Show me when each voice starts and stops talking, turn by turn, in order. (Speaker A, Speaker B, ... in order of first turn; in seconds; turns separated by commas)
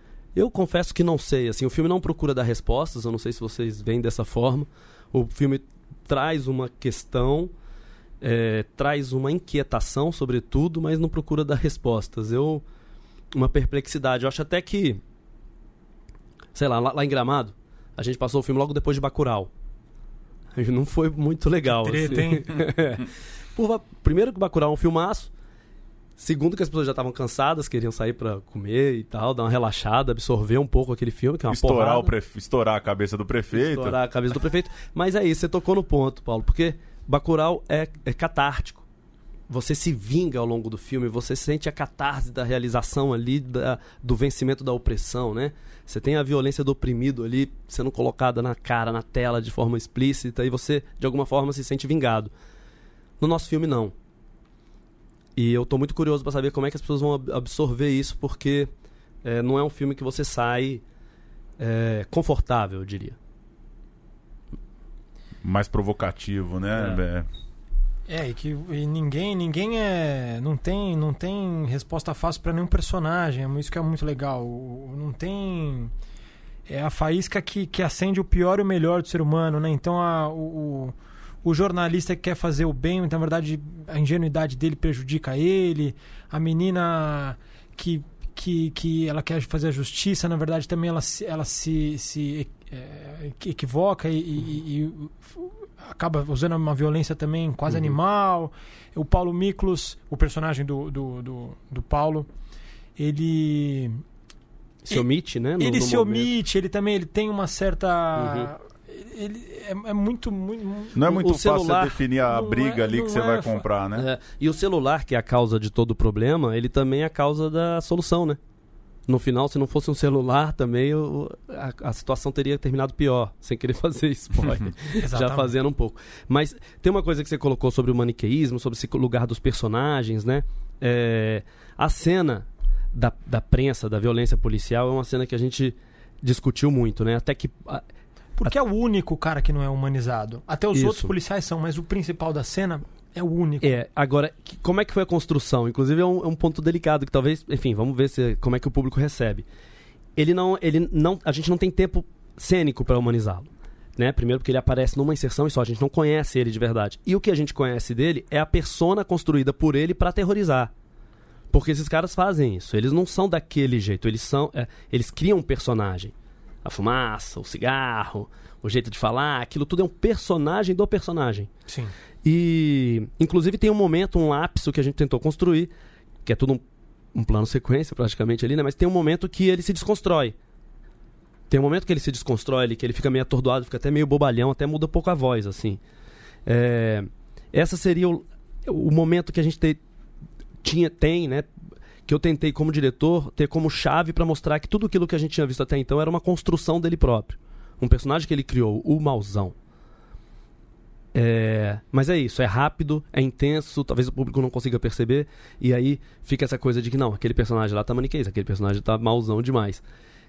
Speaker A: 0.3-7.5, Speaker A: 8.2-12.6, Speaker A: 13.3-15.0, Speaker A: 16.6-19.5, Speaker A: 20.6-25.3, Speaker B: 21.7-22.6, Speaker A: 26.2-32.1, Speaker C: 31.5-34.0, Speaker A: 33.5-38.9, Speaker A: 39.5-52.3, Speaker A: 53.2-53.9, Speaker A: 55.4-58.7, Speaker A: 59.2-60.8, Speaker A: 61.6-63.2, Speaker C: 65.4-67.3, Speaker B: 68.1-75.9, Speaker B: 76.7-102.3, Speaker A: 97.7-98.0, Speaker B: 103.0-104.0, Speaker A: 104.8-106.3, Speaker B: 105.6-111.0, Speaker A: 108.2-108.5, Speaker C: 111.0-114.1, Speaker A: 111.0-112.0, Speaker B: 112.2-113.7, Speaker A: 114.0-118.4, Speaker A: 119.1-137.8, Speaker B: 125.0-125.5, Speaker B: 138.4-143.8, Speaker A: 140.7-141.1, Speaker A: 143.6-149.4, Speaker A: 150.2-160.7, Speaker A: 161.5-166.1, Speaker A: 166.6-171.5, Speaker B: 171.7-171.9, Speaker A: 172.2-175.7, Speaker A: 176.2-176.6, Speaker A: 177.1-180.3, Speaker A: 181.5-185.8, Speaker A: 186.5-189.8, Speaker A: 190.6-191.5, Speaker A: 192.1-199.6, Speaker A: 201.1-209.8